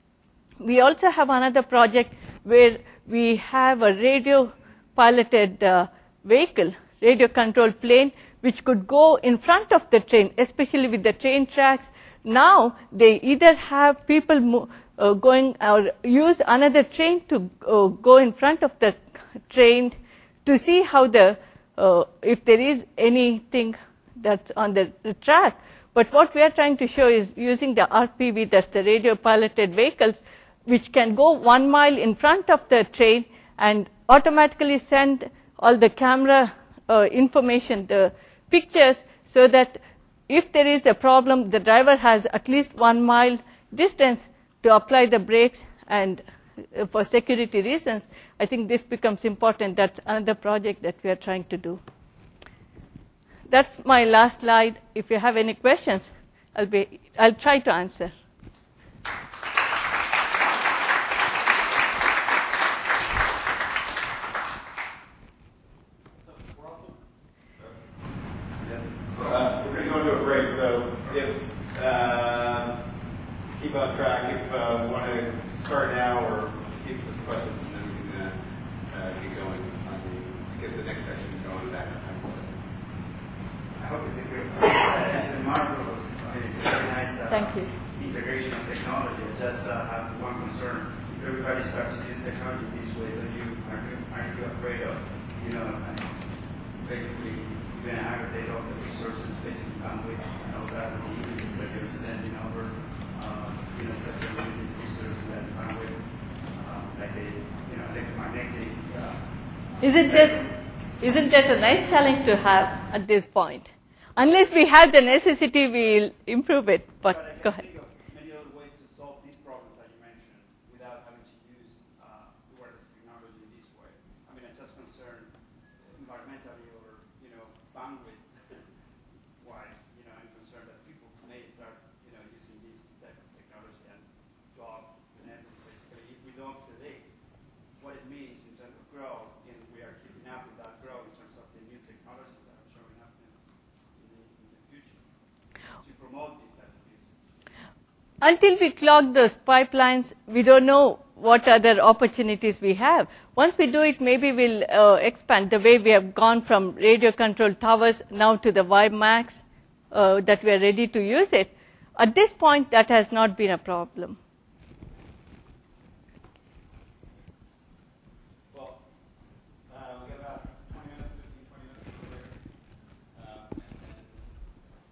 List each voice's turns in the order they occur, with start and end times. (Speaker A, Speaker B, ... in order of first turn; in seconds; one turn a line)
Speaker A: 0.6-51.8
Speaker A: 53.5-58.1
Speaker B: 68.6-72.9
Speaker B: 73.5-82.7
Speaker C: 83.8-96.2
Speaker A: 87.3-87.7
Speaker C: 96.8-109.2
Speaker A: 109.8-110.5
Speaker C: 110.0-110.5
Speaker A: 111.0-117.6
Speaker C: 117.1-128.7
Speaker C: 129.4-137.1
Speaker C: 137.8-143.4
Speaker C: 143.9-145.1
Speaker C: 145.8-147.2
Speaker A: 148.2-164.2
Speaker C: 168.5-168.8
Speaker C: 169.7-172.4
Speaker C: 173.1-174.2